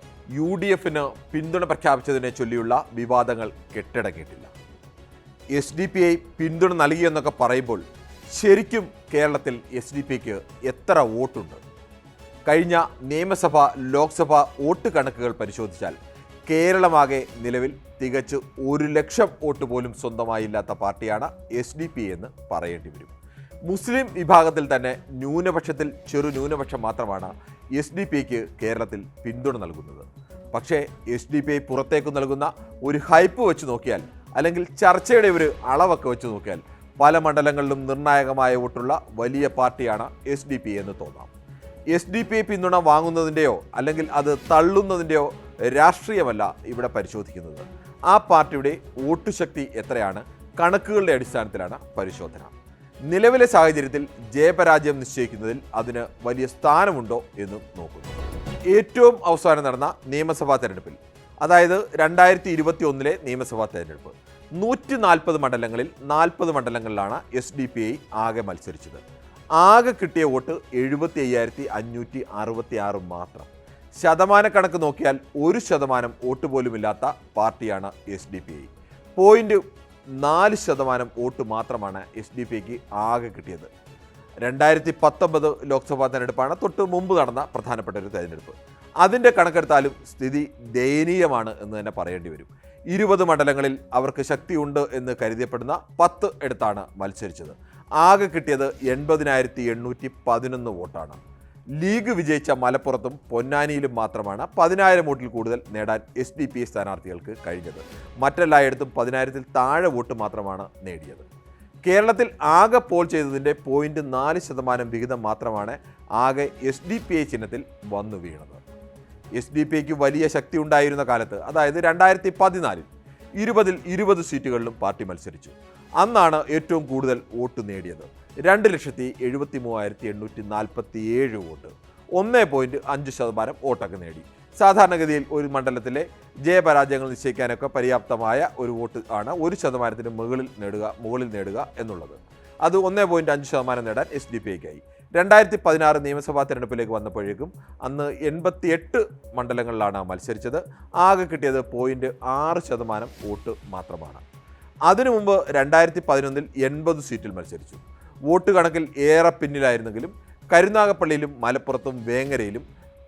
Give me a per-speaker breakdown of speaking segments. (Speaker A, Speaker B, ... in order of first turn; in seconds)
Speaker A: 0.3-4.5, 5.5-7.8, 8.3-11.6, 12.5-16.0, 16.5-23.1, 23.7-41.3, 41.9-52.5, 53.1-58.2, 58.7-69.0, 69.6-79.6, 80.2-83.7, 84.4-101.2, 101.8-111.3, 111.9-118.6, 119.4-154.2, 154.9-162.7